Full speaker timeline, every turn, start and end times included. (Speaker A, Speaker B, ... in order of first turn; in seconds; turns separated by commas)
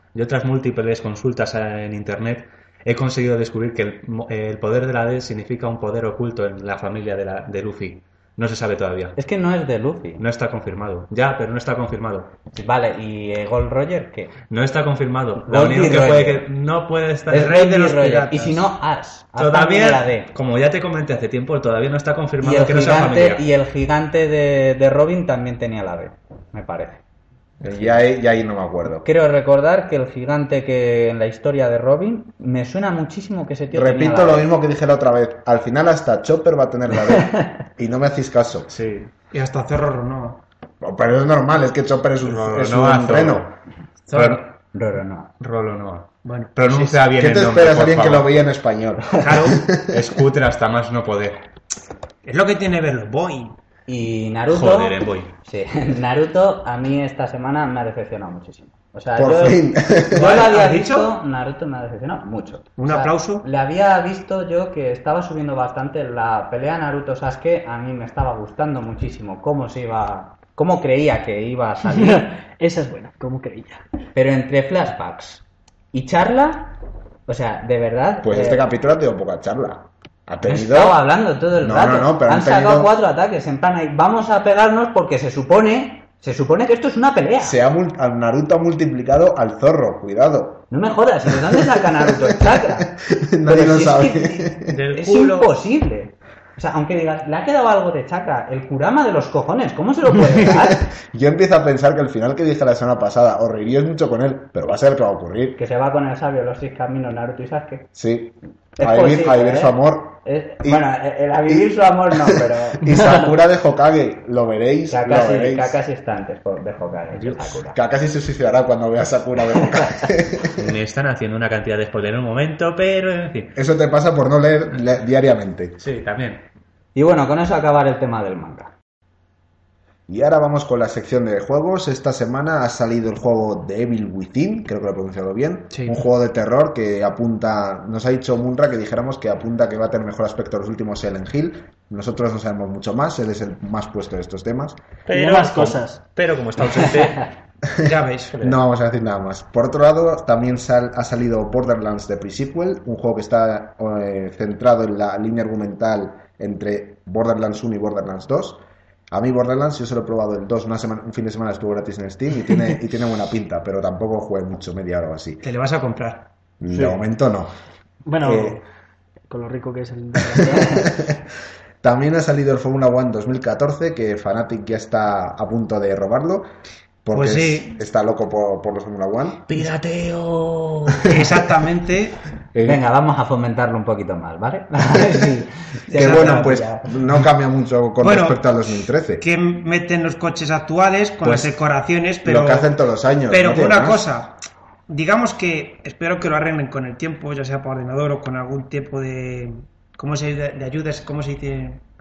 Speaker A: 0.1-9.2, Speaker B: 9.2-10.2, Speaker A: 10.2-12.3, Speaker B: 12.5-14.3, Speaker A: 14.5-17.5, Speaker B: 15.4-16.5, Speaker B: 17.3-20.3, Speaker C: 17.3-18.7, Speaker A: 19.4-23.4, Speaker B: 22.4-27.0, Speaker D: 27.6-29.1, Speaker B: 29.0-34.5, Speaker D: 33.7-38.7, Speaker A: 38.7-39.1, Speaker C: 39.3-40.4, Speaker D: 40.8-43.5, Speaker A: 42.2-43.5, Speaker C: 44.1-44.4, Speaker A: 44.1-44.5, Speaker B: 44.7-45.3, Speaker A: 45.4-48.3, Speaker C: 46.2-47.0, Speaker D: 47.1-50.1, Speaker C: 49.2-49.6, Speaker A: 49.8-51.4, Speaker C: 52.2-53.6, Speaker B: 53.9-72.3, Speaker A: 54.5-55.3, Speaker D: 59.2-60.4, Speaker C: 60.1-61.1, Speaker C: 62.8-63.5, Speaker E: 71.9-73.8, Speaker B: 74.2-76.8, Speaker B: 77.3-78.6, Speaker D: 78.2-81.0, Speaker B: 80.4-87.6, Speaker D: 81.6-82.9, Speaker D: 87.4-90.7, Speaker B: 90.7-100.9, Speaker D: 91.3-94.8, Speaker A: 94.7-95.5, Speaker D: 100.4-105.6, Speaker B: 105.6-107.9, Speaker D: 108.0-110.8, Speaker B: 108.8-113.3, Speaker D: 111.5-115.8, Speaker B: 114.9-117.8, Speaker A: 117.1-117.6, Speaker D: 117.7-120.7, Speaker A: 120.5-123.6, Speaker D: 123.5-125.8, Speaker A: 125.8-126.4, Speaker B: 127.0-128.7, Speaker D: 130.1-144.8, Speaker A: 145.1-147.3, Speaker E: 145.1-146.0, Speaker D: 147.8-165.4, Speaker C: 147.8-148.3, Speaker A: 148.3-148.6, Speaker C: 165.4-166.3, Speaker D: 166.6-167.5, Speaker E: 166.7-167.0, Speaker E: 168.1-168.6, Speaker D: 168.2-168.6, Speaker E: 169.3-170.9, Speaker D: 170.3-171.2, Speaker B: 170.4-170.8, Speaker D: 171.8-176.5, Speaker D: 177.0-179.7, Speaker C: 177.1-177.8, Speaker A: 179.5-181.1, Speaker C: 181.1-182.2, Speaker D: 181.1-181.3, Speaker D: 182.5-182.8, Speaker B: 182.7-186.9, Speaker D: 185.0-185.3, Speaker D: 185.9-189.2, Speaker C: 185.9-186.6, Speaker C: 188.0-188.4, Speaker C: 189.2-192.7, Speaker D: 191.2-191.6, Speaker D: 192.2-194.1, Speaker C: 193.3-194.4, Speaker C: 194.9-201.8